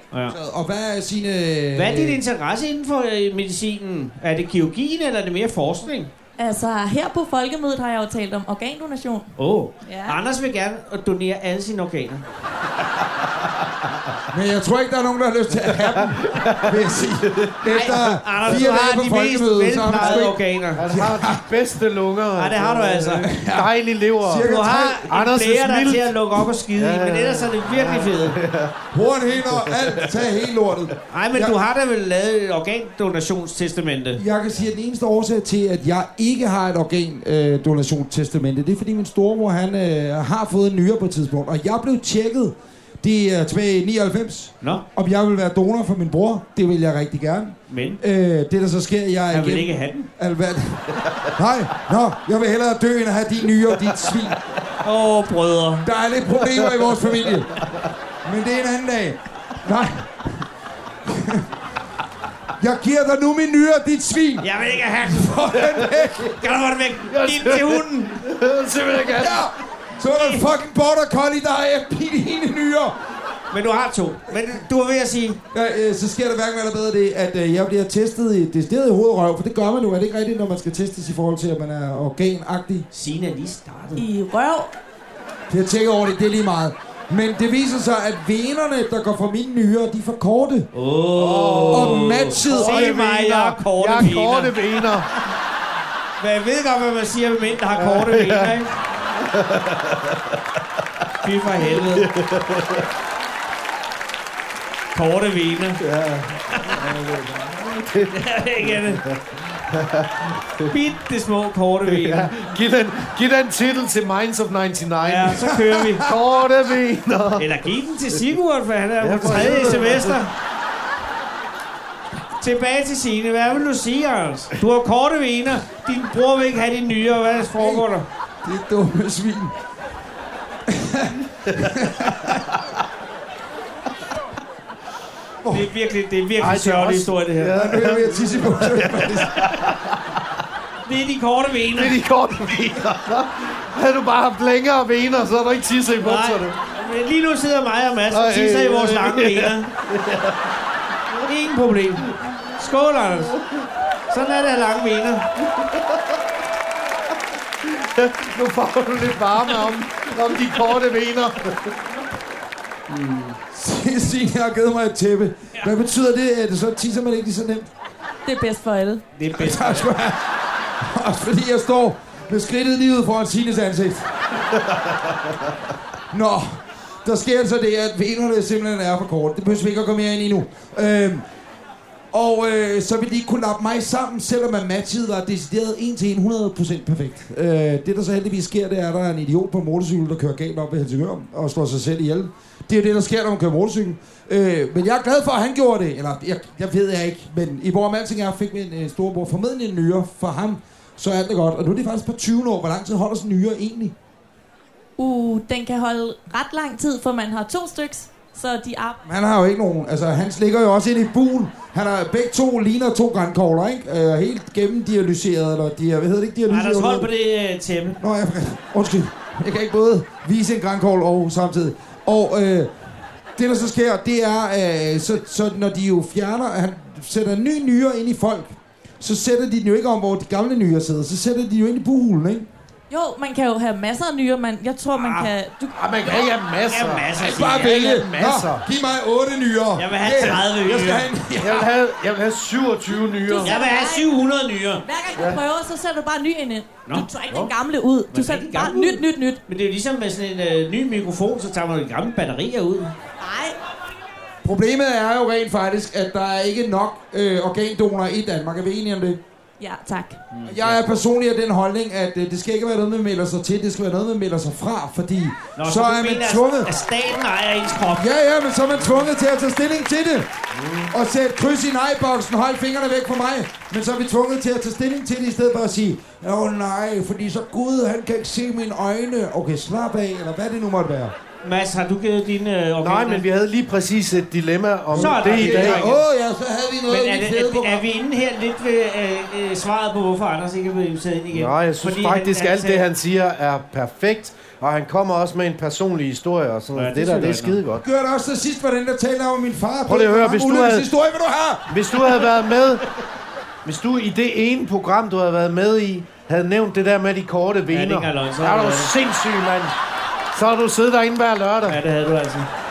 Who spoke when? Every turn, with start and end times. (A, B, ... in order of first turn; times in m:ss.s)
0:00.3-0:02.2 A
0:01.7-0:06.1 B
0:06.4-0:09.3 C
0:09.4-0:12.2 B
0:09.8-0:10.2 C
0:14.3-0:21.5 A
0:15.7-0:17.6 D
0:17.6-0:20.8 B
0:20.8-0:24.5 D
0:22.4-0:23.3 B
0:23.2-0:25.0 A
0:24.4-0:28.4 B
0:25.1-0:26.2 D
0:26.7-0:28.8 D
0:28.9-0:31.6 A
0:29.5-0:30.4 D
0:31.1-0:34.2 B
0:34.2-0:54.4 A
0:47.7-0:48.0 B
0:49.3-0:50.1 B
0:54.8-0:55.9 B
0:55.8-0:57.6 A
0:58.2-1:00.4 A
1:01.1-1:01.5 A
1:02.6-1:04.5 A
1:04.4-1:05.4 B
1:05.0-1:06.4 A
1:05.6-1:06.0 D
1:06.4-1:08.2 B
1:07.1-1:09.5 D
1:09.1-1:13.0 A
1:10.2-1:10.4 B
1:13.5-1:15.4 B
1:15.5-1:22.9 A
1:22.9-1:24.0 B
1:24.0-1:24.7 C
1:25.5-1:30.7 A
1:30.7-1:34.6 B
1:31.2-1:35.1 D
1:31.7-1:32.9 A
1:36.2-1:38.7 B
1:37.7-1:38.6 D
1:39.2-1:40.3 D
1:41.2-1:42.1 B
1:41.6-1:42.9 D
1:44.9-1:45.8 B
1:45.8-1:50.7 D
1:46.5-1:46.8 B
1:48.1-1:49.0 B
1:50.7-1:52.3 B
1:51.9-1:57.6 D
1:55.0-1:56.0 B
1:55.7-1:56.0 A
1:57.4-2:00.3 B
1:59.0-2:00.2 D
2:02.4-2:08.1 B
2:07.6-2:07.8 A
2:08.4-2:09.6 A
2:10.7-2:12.4 A
2:15.5-2:17.5 B
2:16.4-2:20.0 D
2:17.5-2:19.5 A
2:20.8-2:22.0 B
2:21.8-2:26.6 D
2:26.0-2:29.7 B
2:28.1-2:30.5 D
2:31.2-2:33.4 B
2:34.1-2:35.3 B
2:35.6-2:35.9 D
2:37.6-2:41.8 D
2:42.9-2:43.4 B
2:43.5-2:47.7 A
2:48.2-2:49.0 C
2:49.2-2:49.9 B
2:49.3-2:54.1 A
2:56.1-3:01.2 A
3:02.1-3:23.9 A
3:25.0-3:29.0 C
3:29.0-3:37.1 A
3:36.5-3:38.0 B
3:38.0-3:42.7 A
3:43.4-3:52.5 A
3:52.9-3:55.8 C
3:55.0-3:55.3 B
3:55.7-3:58.7 D
3:56.1-3:58.0 B
3:57.2-4:01.7 A
3:59.8-4:01.1 B
4:01.4-4:03.6 D
4:03.3-4:04.1 C
4:03.4-4:04.8 B
4:04.8-4:09.4 C
4:05.2-4:05.4 D
4:08.1-4:12.9 B
4:13.2-4:13.6 C
4:14.4-4:19.2 A
4:19.6-4:20.2 C
4:20.3-4:20.8 B
4:20.5-4:26.7 A
4:25.6-4:28.1 B
4:27.9-4:30.3 A
4:30.6-4:30.9 D
4:30.9-4:41.2 A
4:41.4-4:43.2 B
4:42.8-4:45.8 D
4:44.9-4:46.0 B
4:44.9-4:47.8 A
4:46.9-4:52.8 B
4:51.3-4:57.8 D
4:56.8-4:57.6 B
4:57.8-5:01.7 A
4:59.9-5:00.9 D
5:01.7-5:02.9 D
5:03.6-5:09.7 D
5:07.7-5:08.9 B
5:10.3-5:11.8 D
5:11.7-5:12.5 B